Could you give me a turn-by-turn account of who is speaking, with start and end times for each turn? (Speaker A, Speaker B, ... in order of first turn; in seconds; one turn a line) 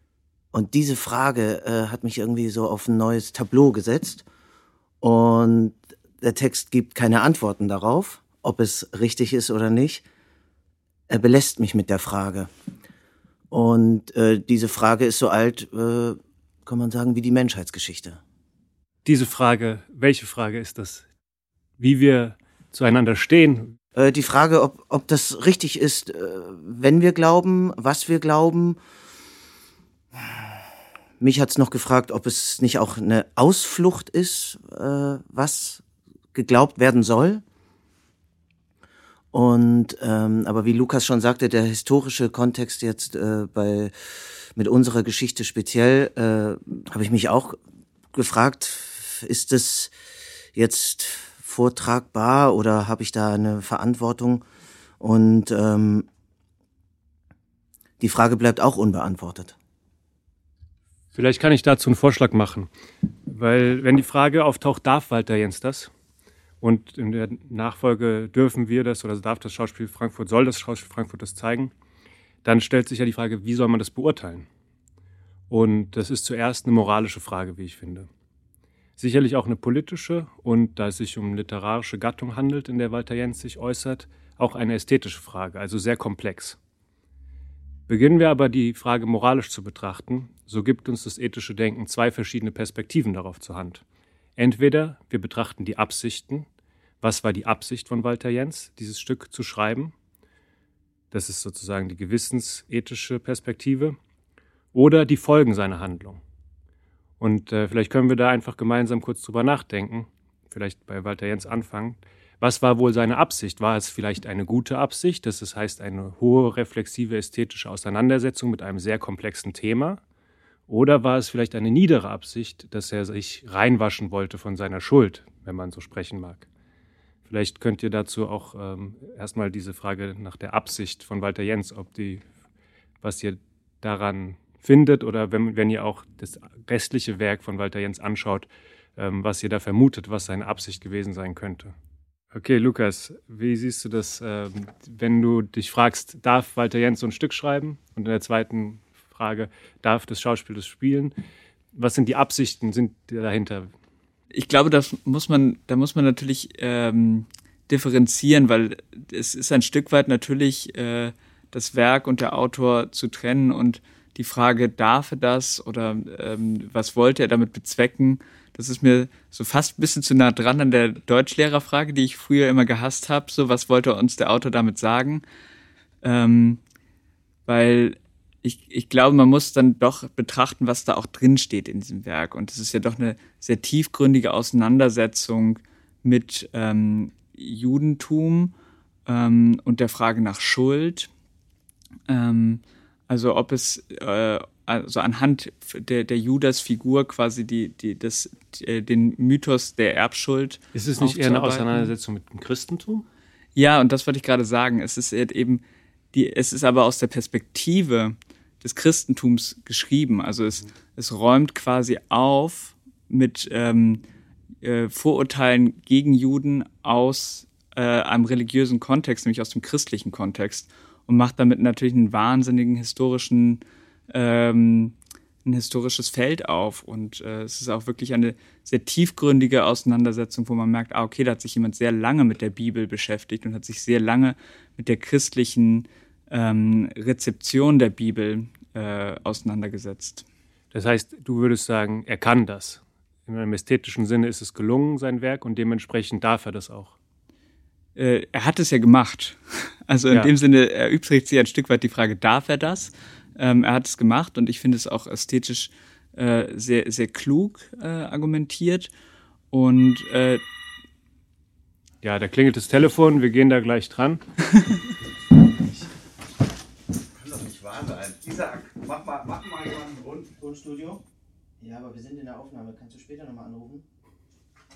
Speaker A: 0.5-4.2
Speaker A: 5.0-10.0
Speaker A: 11.1-12.5
Speaker A: 13.5-18.2
Speaker B: 19.1-21.0
Speaker B: 21.8-23.7
Speaker A: 23.9-28.8
Speaker A: 30.2-30.5
Speaker A: 31.2-35.8
Speaker A: 36.3-37.4
Speaker A: 39.3-47.6
Speaker A: 48.1-49.9
Speaker A: 50.5-54.4
Speaker A: 55.0-56.1
Speaker A: 58.0-59.6
Speaker B: 61.1-62.7
Speaker B: 63.3-65.9
Speaker B: 66.6-71.7
Speaker B: 72.4-74.5
Speaker B: 75.5-78.1
Speaker B: 79.0-86.6
Speaker B: 87.9-93.8
Speaker B: 94.4-96.5
Speaker B: 97.0-99.9
Speaker B: 101.1-104.0
Speaker B: 104.7-106.2
Speaker B: 107.2-120.0
Speaker B: 120.7-126.5
Speaker B: 127.3-132.2
Speaker B: 133.0-141.7
Speaker B: 142.3-151.1
Speaker B: 151.8-153.7
Speaker C: 154.3-175.2
Speaker C: 176.0-176.6
Speaker C: 177.5-188.5
Speaker C: 189.1-191.1
Speaker C: 192.1-201.9
Speaker B: 200.7-203.1
Speaker C: 203.6-205.6
Speaker C: 206.1-214.0
Speaker C: 214.6-240.2
Speaker B: 240.7-246.9
Speaker C: 248.0-258.9
Speaker C: 259.5-260.4
Speaker B: 262.0-264.2
Speaker A: 267.2-271.0
Speaker A: 271.6-273.9